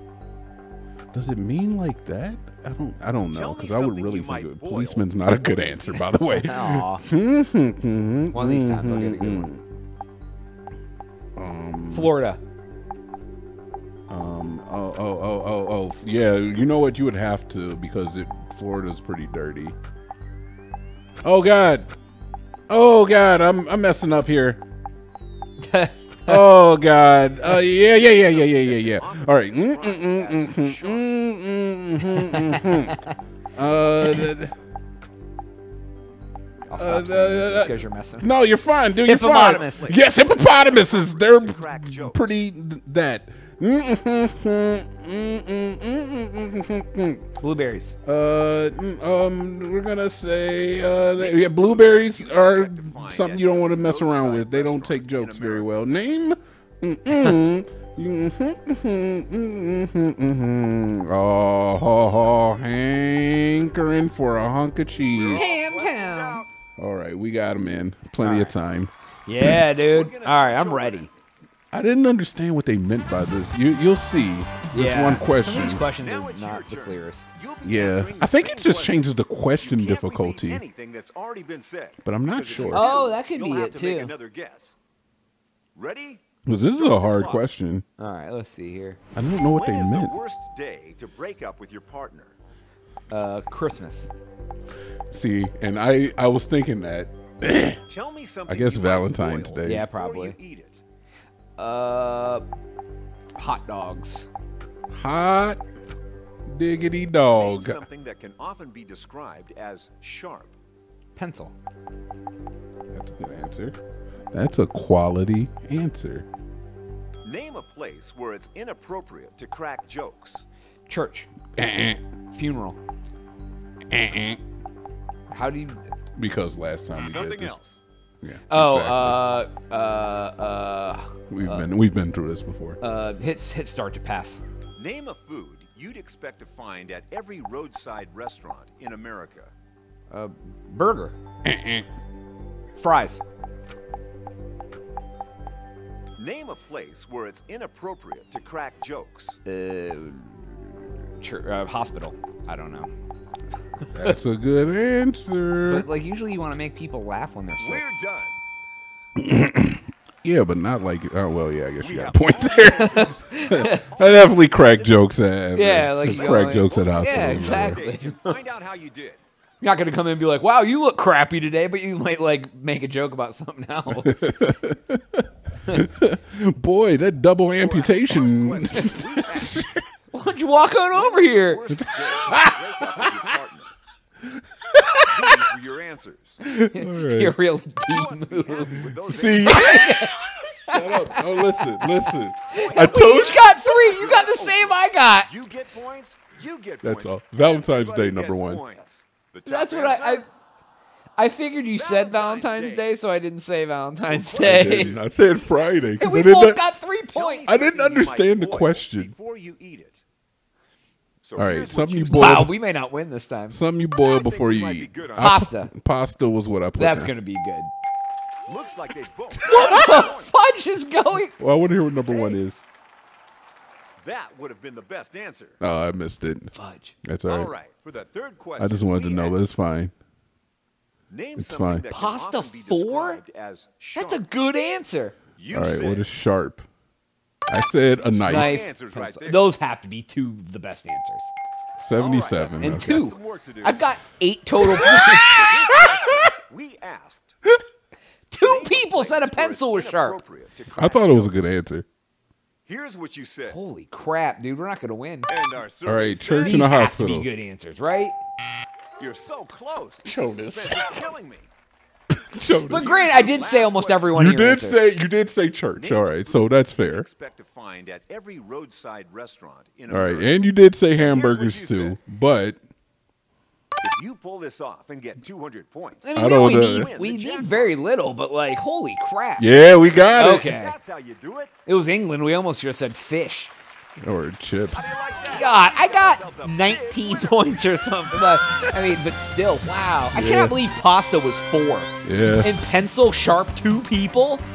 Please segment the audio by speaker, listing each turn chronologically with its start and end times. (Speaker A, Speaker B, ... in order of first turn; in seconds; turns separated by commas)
Speaker A: 1.1-9.6, Speaker B: 3.3-6.2, Speaker C: 6.1-7.0, Speaker C: 8.3-9.5, Speaker A: 11.3-12.1, Speaker C: 11.9-12.4, Speaker A: 14.1-19.8, Speaker A: 21.2-21.9, Speaker A: 22.7-24.6, Speaker C: 25.6-26.5, Speaker A: 26.3-33.0, Speaker B: 27.9-31.1, Speaker C: 32.0-33.1, Speaker A: 33.5-34.5, Speaker C: 36.7-38.3, Speaker A: 36.7-47.2, Speaker C: 39.0-39.9, Speaker B: 39.3-42.4, Speaker C: 47.4-48.0, Speaker A: 48.0-65.4, Speaker B: 51.2-55.9, Speaker B: 65.1-66.5, Speaker C: 65.3-66.4, Speaker A: 66.8-69.6, Speaker C: 68.2-68.5, Speaker C: 69.3-71.1, Speaker B: 69.8-71.1, Speaker A: 71.7-75.8, Speaker C: 74.7-77.3, Speaker B: 75.8-84.8, Speaker A: 77.6-80.6, Speaker A: 82.0-82.9, Speaker C: 82.7-84.1, Speaker B: 85.7-87.4, Speaker A: 86.5-87.8, Speaker C: 88.0-89.0, Speaker A: 89.1-90.1, Speaker B: 89.5-92.3, Speaker C: 93.1-94.1, Speaker A: 95.1-97.8, Speaker B: 97.9-100.8, Speaker A: 98.5-99.9, Speaker C: 99.6-100.3, Speaker C: 101.6-102.4, Speaker C: 103.3-104.3, Speaker A: 104.9-105.6, Speaker A: 106.5-107.8, Speaker B: 107.3-110.5, Speaker C: 111.2-111.5, Speaker A: 112.9-113.8, Speaker A: 114.3-116.2, Speaker B: 117.2-120.4, Speaker C: 120.9-121.3, Speaker A: 121.5-122.0, Speaker C: 122.3-122.8, Speaker A: 123.9-124.4, Speaker C: 125.3-125.8, Speaker A: 126.2-127.5, Speaker B: 127.0-127.8, Speaker A: 128.2-129.3, Speaker C: 128.5-131.7, Speaker A: 131.3-132.8, Speaker C: 132.8-134.4, Speaker B: 134.8-139.5, Speaker C: 140.1-141.2, Speaker A: 141.4-141.9, Speaker C: 142.8-143.2, Speaker B: 146.2-149.4, Speaker C: 149.4-152.9, Speaker A: 153.9-155.9, Speaker C: 155.7-157.8, Speaker B: 157.6-158.4, Speaker A: 159.2-167.8, Speaker B: 161.8-165.3, Speaker C: 162.6-163.9, Speaker C: 165.5-168.3, Speaker B: 166.1-169.2, Speaker C: 169.6-174.4, Speaker A: 173.9-179.8, Speaker B: 177.6-179.7, Speaker C: 180.1-183.1, Speaker B: 180.9-183.7, Speaker A: 181.8-183.1, Speaker C: 184.7-185.1, Speaker B: 185.0-186.4, Speaker C: 186.4-195.3, Speaker A: 186.4-187.3, Speaker B: 187.9-189.9, Speaker A: 188.8-193.4, Speaker B: 192.5-200.2, Speaker A: 196.8-198.6, Speaker C: 199.4-200.2, Speaker C: 201.2-204.9, Speaker B: 201.7-202.9, Speaker B: 204.1-205.9, Speaker A: 204.4-206.6, Speaker C: 206.0-207.4, Speaker B: 207.1-210.0, Speaker A: 207.5-209.1, Speaker B: 211.2-212.5, Speaker A: 211.3-212.5, Speaker C: 212.1-213.6, Speaker A: 213.5-217.1, Speaker B: 214.0-215.4, Speaker C: 215.2-215.7, Speaker C: 216.8-217.7, Speaker B: 218.4-220.3, Speaker C: 219.4-221.3, Speaker A: 221.4-222.6, Speaker B: 224.0-225.6, Speaker A: 225.6-226.5, Speaker C: 226.5-226.9, Speaker A: 227.0-227.5, Speaker B: 227.2-229.4, Speaker A: 228.6-229.9, Speaker B: 231.1-234.2, Speaker A: 231.4-231.9, Speaker C: 231.9-233.2, Speaker C: 233.9-235.2, Speaker B: 235.4-236.1, Speaker A: 235.5-236.6, Speaker A: 237.5-238.6, Speaker B: 237.8-239.5, Speaker C: 238.3-241.3, Speaker A: 241.8-243.0, Speaker B: 242.0-243.9, Speaker C: 242.6-245.8, Speaker B: 244.7-247.3, Speaker A: 244.7-245.1, Speaker A: 245.8-246.2, Speaker C: 248.3-250.2, Speaker B: 248.4-251.6, Speaker A: 250.8-251.8, Speaker B: 252.7-253.6, Speaker C: 253.5-255.3, Speaker B: 255.3-256.7, Speaker A: 255.8-257.3, Speaker C: 256.4-258.1, Speaker B: 259.0-261.5, Speaker A: 260.0-261.1, Speaker A: 262.1-262.9, Speaker C: 262.7-264.9, Speaker B: 262.7-264.2, Speaker A: 264.1-267.1, Speaker B: 265.7-270.4, Speaker A: 269.9-272.6, Speaker B: 271.0-272.0, Speaker B: 273.8-277.8, Speaker C: 276.0-279.5, Speaker A: 276.1-276.9, Speaker A: 279.4-280.5, Speaker C: 280.1-280.7, Speaker B: 280.2-281.5, Speaker C: 281.6-283.5, Speaker A: 284.0-285.0, Speaker B: 284.7-288.0, Speaker C: 285.2-294.4, Speaker A: 290.1-290.6, Speaker A: 292.0-292.5